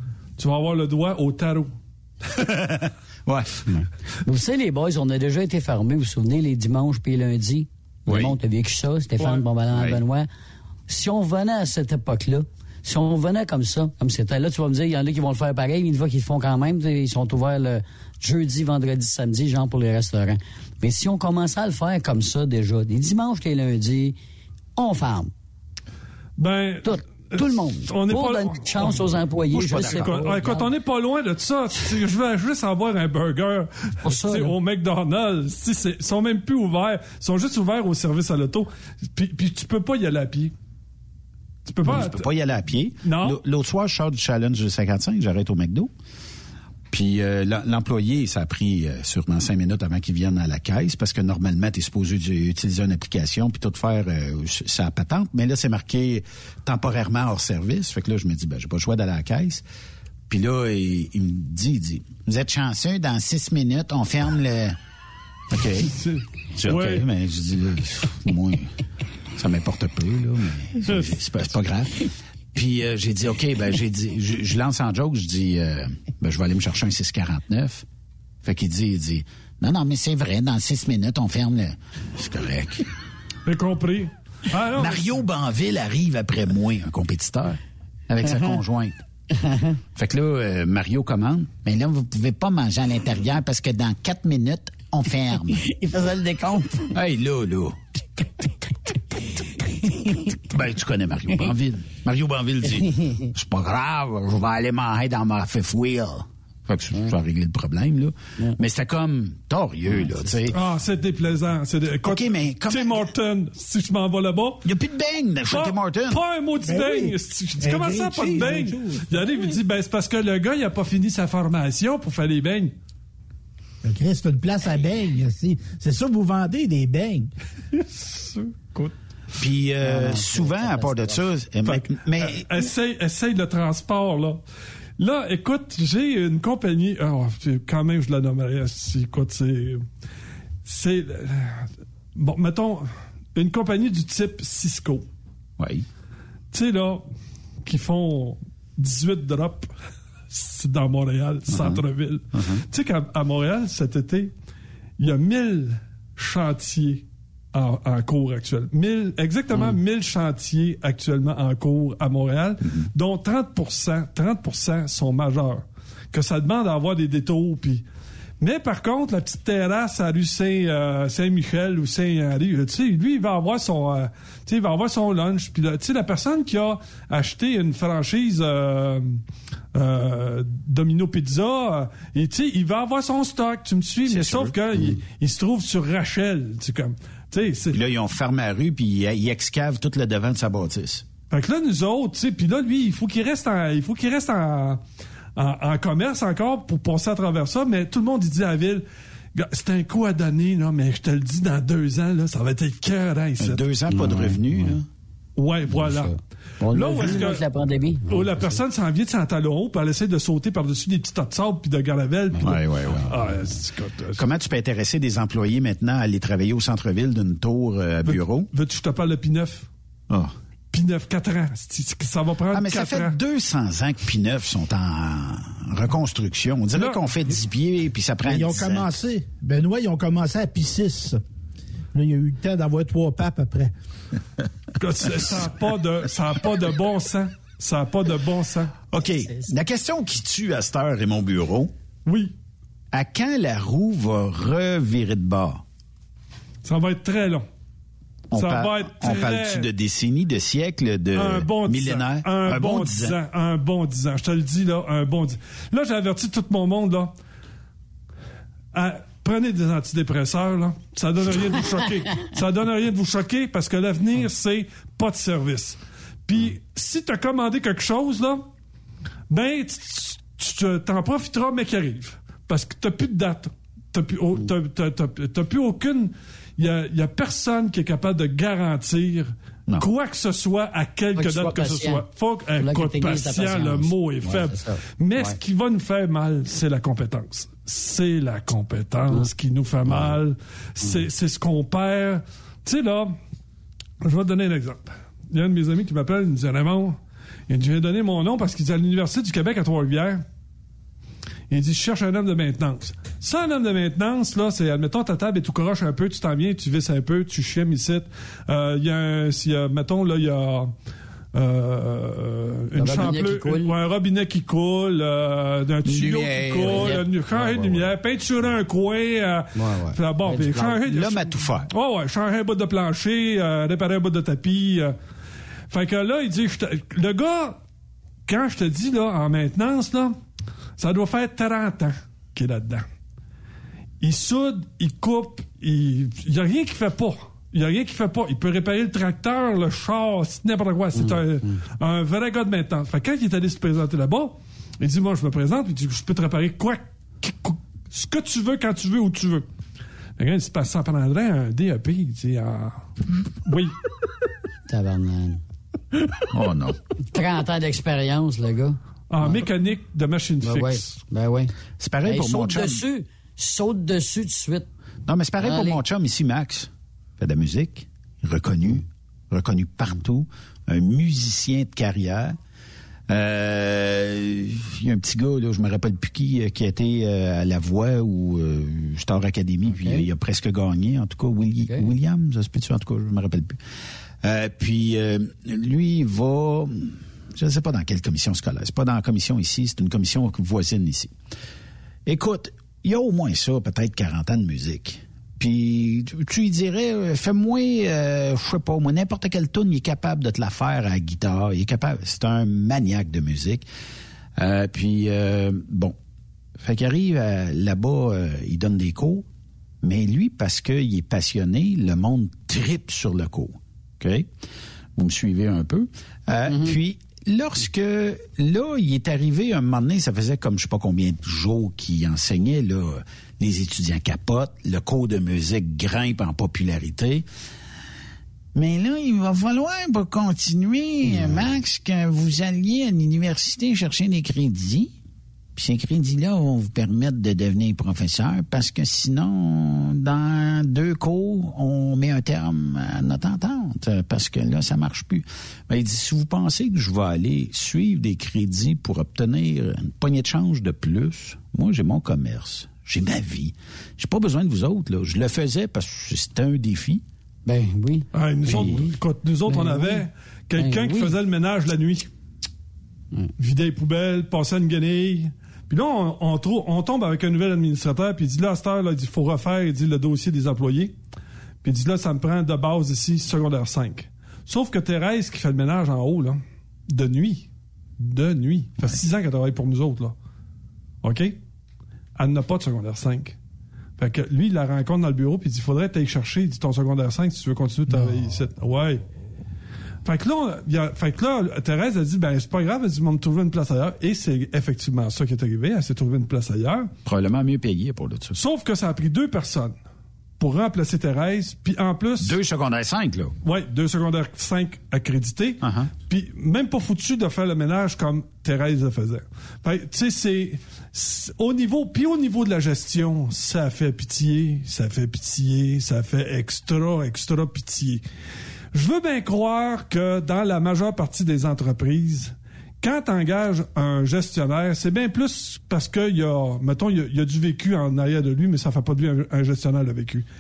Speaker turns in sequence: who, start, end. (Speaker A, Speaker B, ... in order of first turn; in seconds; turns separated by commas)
Speaker A: 0.4-1.7, Speaker B: 2.4-3.6, Speaker C: 3.7-10.3, Speaker B: 8.1-8.4, Speaker A: 9.2-9.4, Speaker B: 9.7-10.0, Speaker C: 10.9-24.2, Speaker C: 24.8-25.3, Speaker A: 26.4-29.2, Speaker C: 26.8-30.7, Speaker B: 29.5-30.4, Speaker A: 29.7-40.5, Speaker C: 34.0-34.5, Speaker A: 41.7-42.3, Speaker B: 41.8-45.9, Speaker A: 43.0-43.4, Speaker B: 46.9-59.6, Speaker B: 60.3-64.8, Speaker B: 65.5-65.9, Speaker A: 65.9-67.1, Speaker B: 66.6-68.7, Speaker B: 69.4-77.8, Speaker A: 70.8-71.2, Speaker B: 78.4-82.9, Speaker A: 83.5-85.2, Speaker B: 84.8-88.9, Speaker C: 89.4-89.8, Speaker B: 90.0-95.7, Speaker C: 95.6-96.9, Speaker B: 96.9-97.8, Speaker C: 99.9-100.2, Speaker B: 100.5-110.6, Speaker A: 110.5-114.7, Speaker B: 112.0-113.1, Speaker B: 114.6-116.2, Speaker A: 115.5-122.7, Speaker D: 116.6-119.4, Speaker D: 123.8-127.3, Speaker A: 127.7-128.9, Speaker B: 129.4-132.7, Speaker C: 129.8-131.2, Speaker A: 131.7-134.4, Speaker A: 135.0-139.8, Speaker A: 140.7-145.1, Speaker B: 145.6-145.9, Speaker A: 146.5-147.1, Speaker A: 147.7-149.7, Speaker A: 150.3-154.3, Speaker B: 151.5-151.8, Speaker B: 152.3-152.6, Speaker A: 155.0-167.8, Speaker A: 168.4-179.2, Speaker A: 179.7-187.8, Speaker B: 184.1-184.6, Speaker B: 187.7-191.1, Speaker A: 191.3-194.8, Speaker A: 195.4-198.8, Speaker A: 199.3-203.7, Speaker B: 203.4-204.9, Speaker C: 203.9-204.8, Speaker A: 205.4-206.1, Speaker C: 205.7-208.6, Speaker A: 206.7-207.4, Speaker A: 208.1-214.2, Speaker C: 212.3-213.0, Speaker B: 212.4-213.2, Speaker B: 214.2-218.5, Speaker A: 218.0-219.7, Speaker A: 220.7-223.2, Speaker B: 222.5-229.0, Speaker A: 226.8-227.1, Speaker D: 228.2-231.2, Speaker D: 231.9-233.7, Speaker A: 234.8-238.8, Speaker B: 238.9-241.7, Speaker A: 242.1-242.3, Speaker B: 242.9-245.6, Speaker A: 246.6-247.4, Speaker B: 248.3-253.2, Speaker A: 248.3-249.7, Speaker A: 251.2-257.1, Speaker A: 258.7-268.4, Speaker A: 269.3-293.2, Speaker C: 281.2-285.4, Speaker A: 294.0-297.0, Speaker A: 297.5-300.2, Speaker A: 301.5-310.7, Speaker A: 311.3-325.0, Speaker C: 312.8-313.8, Speaker B: 315.9-317.0, Speaker C: 316.6-317.9, Speaker C: 319.6-320.9, Speaker B: 320.9-321.7, Speaker A: 325.7-327.6, Speaker A: 328.3-330.2, Speaker A: 330.8-332.9, Speaker A: 334.0-349.5, Speaker C: 340.9-341.6, Speaker A: 350.2-352.9, Speaker A: 353.4-353.8, Speaker C: 354.7-355.4, Speaker B: 356.3-356.8, Speaker C: 357.1-359.5, Speaker A: 359.1-361.0, Speaker C: 360.4-361.5, Speaker B: 361.8-362.8, Speaker C: 362.1-364.7, Speaker B: 365.1-372.4, Speaker C: 365.4-365.8, Speaker B: 373.1-383.6, Speaker C: 379.7-380.1, Speaker C: 381.7-381.9, Speaker B: 384.2-391.1, Speaker B: 392.1-403.7, Speaker B: 404.4-405.9, Speaker B: 406.6-409.3, Speaker B: 409.8-414.3, Speaker B: 415.0-427.3, Speaker C: 416.5-416.8, Speaker B: 428.5-434.9, Speaker B: 435.6-457.0, Speaker C: 457.4-459.0, Speaker A: 458.1-462.1, Speaker B: 458.5-458.9, Speaker C: 459.5-461.2, Speaker A: 463.4-470.9, Speaker A: 471.6-480.1, Speaker A: 481.0-481.4, Speaker A: 482.2-483.4, Speaker A: 484.0-489.0, Speaker A: 490.0-496.9, Speaker B: 497.1-498.4, Speaker A: 498.3-499.8, Speaker A: 500.4-502.4, Speaker B: 502.2-503.4, Speaker A: 503.4-518.0, Speaker B: 505.6-505.9, Speaker A: 518.7-530.3